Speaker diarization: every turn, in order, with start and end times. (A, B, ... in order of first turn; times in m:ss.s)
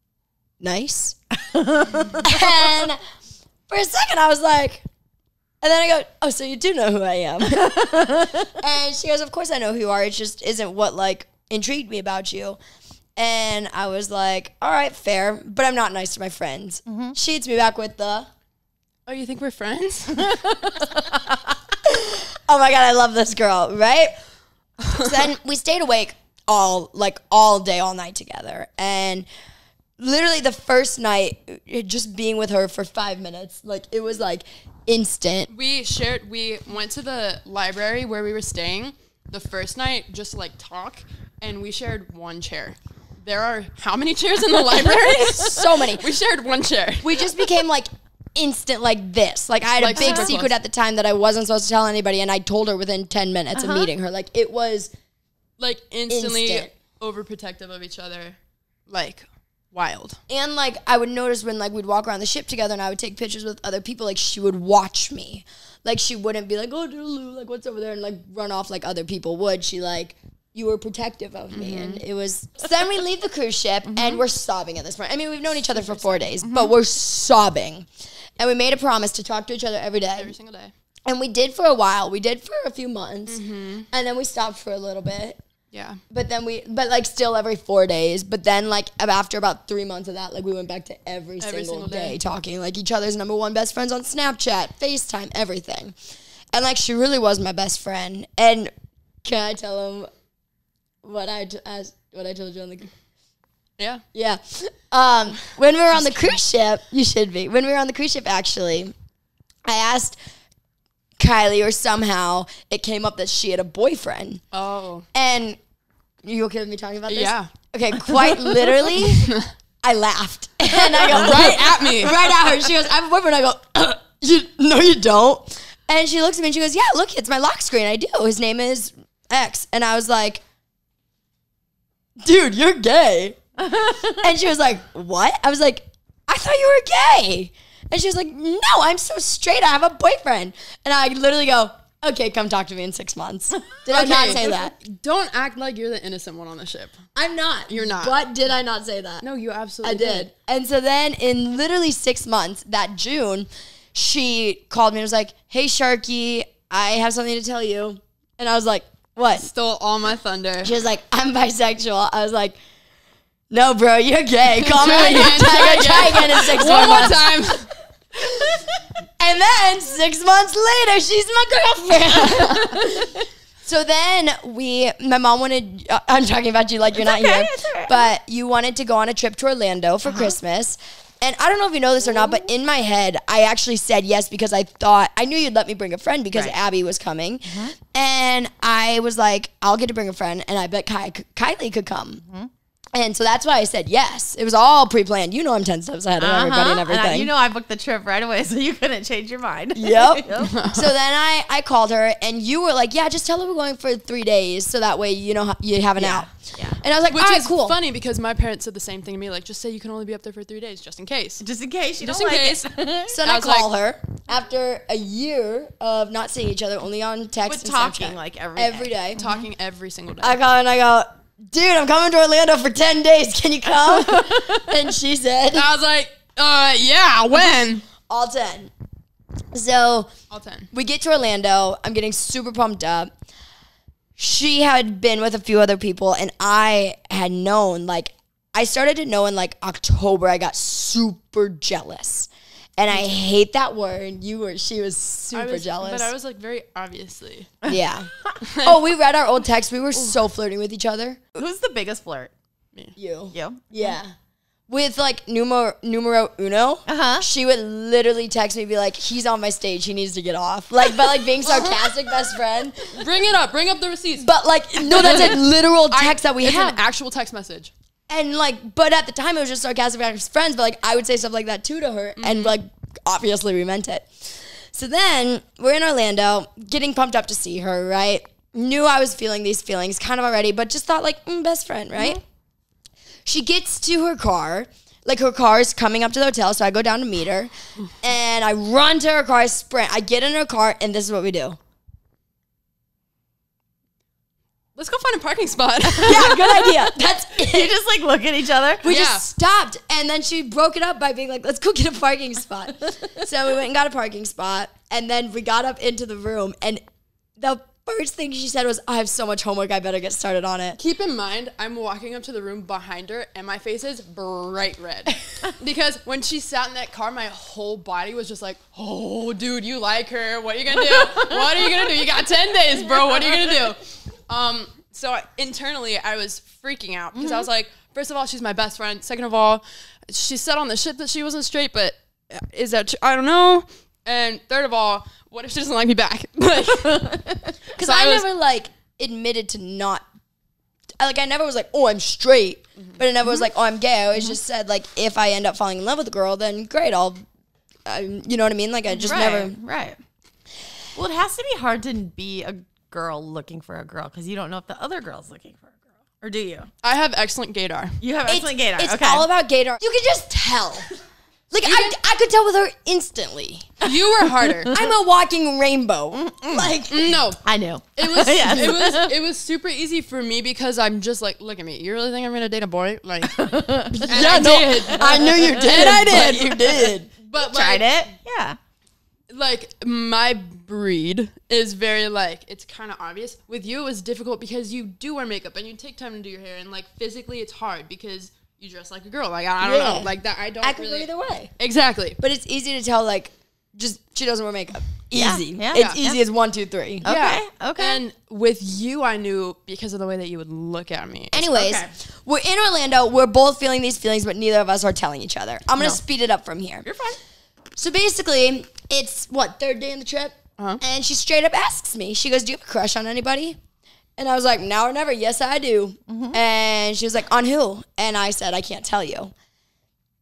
0:00.6-0:01.2 A
0:01.5-0:02.4 B
0:02.2-0:03.0 A
0:03.7-0:04.8 A
0:05.6-0:12.6 A
0:07.5-0:08.5 B
0:13.2-0:18.3 A
0:16.9-0:17.2 B
0:19.1-0:20.9 C
0:21.8-0:24.1 A
0:24.9-0:29.3 A
0:30.0-0:35.5 A
0:35.5-0:47.5 C
0:44.8-0:46.1 A
0:47.0-0:54.9 A
0:49.8-0:50.5 C
0:50.0-0:50.2 B
0:53.6-0:53.9 B
0:55.6-0:58.4 C
0:56.1-0:56.7 A
0:58.9-1:00.2 C
1:00.3-1:20.4 A
1:11.5-1:12.0 C
1:13.9-1:14.2 C
1:15.8-1:16.7 C
1:20.2-1:20.7 C
1:21.1-1:25.4 A
1:23.3-1:23.9 C
1:25.7-1:26.0 C
1:26.1-1:35.9 A
1:31.4-1:32.2 C
1:36.5-1:38.7 A
1:39.2-1:40.1 A
1:41.0-1:42.9 A
1:43.8-1:44.0 C
1:44.1-1:48.9 A
1:46.0-1:46.3 C
1:49.6-1:50.2 A
1:51.2-1:54.4 A
1:54.5-1:55.1 C
1:55.1-1:55.6 A
1:56.2-2:10.4 A
1:57.1-1:57.5 C
1:59.2-1:59.5 C
2:00.7-2:02.2 C
2:12.2-2:13.4 A
2:13.6-2:14.3 B
2:14.2-2:24.7 A
2:23.9-2:27.0 C
2:27.1-2:29.2 A
2:27.7-2:28.2 C
2:29.2-2:30.3 C
2:29.8-2:39.5 A
2:39.4-2:40.7 C
2:40.6-2:42.6 A
2:43.5-2:47.5 A
2:44.6-2:47.7 C
2:48.1-2:48.6 A
2:49.2-3:12.2 A
2:52.1-2:52.8 C
2:57.0-2:58.1 B
3:07.5-3:07.7 B
3:12.2-3:12.5 B
3:12.9-3:17.3 A
3:16.2-3:20.5 B
3:19.7-3:27.8 A
3:20.4-3:20.9 C
3:26.0-3:26.8 B
3:27.1-3:31.4 C
3:31.4-3:33.1 B
3:32.0-3:32.7 C
3:33.1-3:39.2 A
3:33.2-3:33.7 C
3:37.4-3:39.4 B
3:39.2-3:40.4 C
3:40.2-3:45.7 A
3:43.6-3:44.7 B
3:45.5-3:47.9 C
3:48.1-3:48.7 A
3:49.5-3:50.1 A
3:50.3-3:50.7 C
3:50.7-3:53.1 A
3:54.2-4:06.1 A
4:05.3-4:07.5 C
4:07.6-4:08.4 B
4:07.7-4:08.1 A
4:08.4-4:08.8 C
4:08.6-4:11.3 A
4:11.4-4:12.3 B
4:12.9-4:14.1 A
4:13.3-4:13.6 B
4:14.7-4:23.0 A
4:16.9-4:17.3 B
4:21.4-4:22.0 C
4:22.9-4:24.3 C
4:24.2-4:26.8 A
4:24.9-4:27.7 C
4:28.1-4:42.2 A
4:32.2-4:32.6 C
4:43.2-4:51.6 A
4:54.8-4:56.5 C
4:55.9-4:58.9 B
4:56.0-4:57.7 A
4:58.8-5:06.8 A
4:58.8-4:59.2 C
5:07.4-5:10.8 A
5:10.8-5:37.2 C
5:21.0-5:21.7 B
5:22.9-5:23.5 B
5:27.1-5:27.5 B
5:36.8-5:37.6 B
5:37.7-5:40.0 A
5:37.8-5:38.3 C
5:41.0-5:47.2 A
5:47.9-5:49.6 A
5:48.9-5:50.0 B
5:50.9-5:56.7 B
5:56.8-5:58.0 C
5:58.0-5:59.2 B
5:58.3-6:00.9 A
6:01.5-6:03.8 A
6:01.6-6:01.9 C
6:03.8-6:04.8 C
6:04.5-6:04.9 B
6:04.7-6:07.1 A
6:06.2-6:06.7 B
6:06.9-6:07.4 C
6:07.4-6:09.1 B
6:08.0-6:13.4 C
6:13.2-6:16.0 B
6:13.9-6:17.1 A
6:14.1-6:18.1 C
6:17.3-6:18.6 B
6:19.3-6:32.2 C
6:29.6-6:31.5 A
6:32.2-6:37.1 A
6:35.1-6:36.2 B
6:35.7-6:36.0 C
6:37.0-6:38.0 B
6:37.0-6:41.5 C
6:41.3-6:46.9 A
6:41.5-6:41.9 B
6:46.8-6:47.2 B
6:47.8-6:53.6 A
6:54.2-6:59.3 A
6:56.1-6:56.4 B